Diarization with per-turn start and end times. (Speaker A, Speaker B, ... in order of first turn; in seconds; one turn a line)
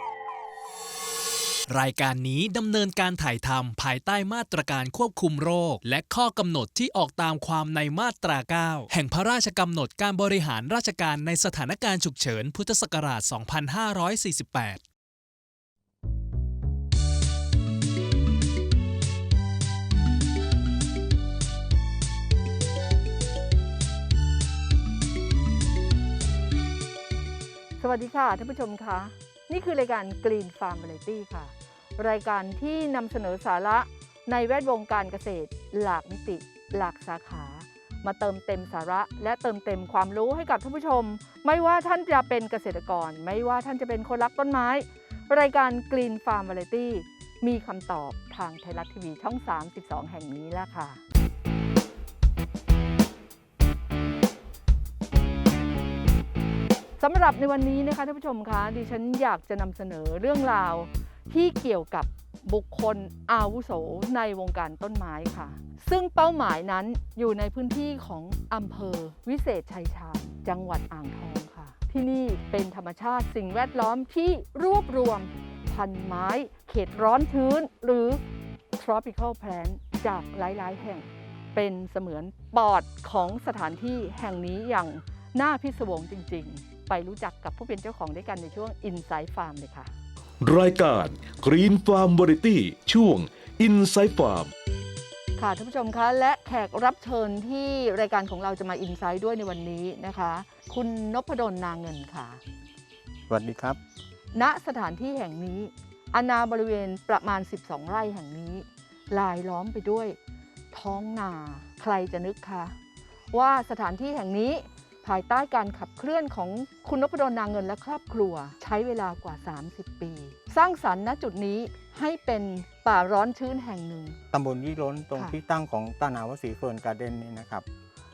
Speaker A: 1.7-14.8
Speaker B: 27.8-51.0
Speaker B: 57.0-78.2
Speaker B: 78.8-89.9
Speaker C: 90.4-94.5
Speaker B: 95.4-102.4
Speaker D: 103.3-103.8
Speaker B: 104.3-110.2
Speaker B: 110.7-112.7
Speaker B: 113.3-124.2
Speaker D: 124.3-127.6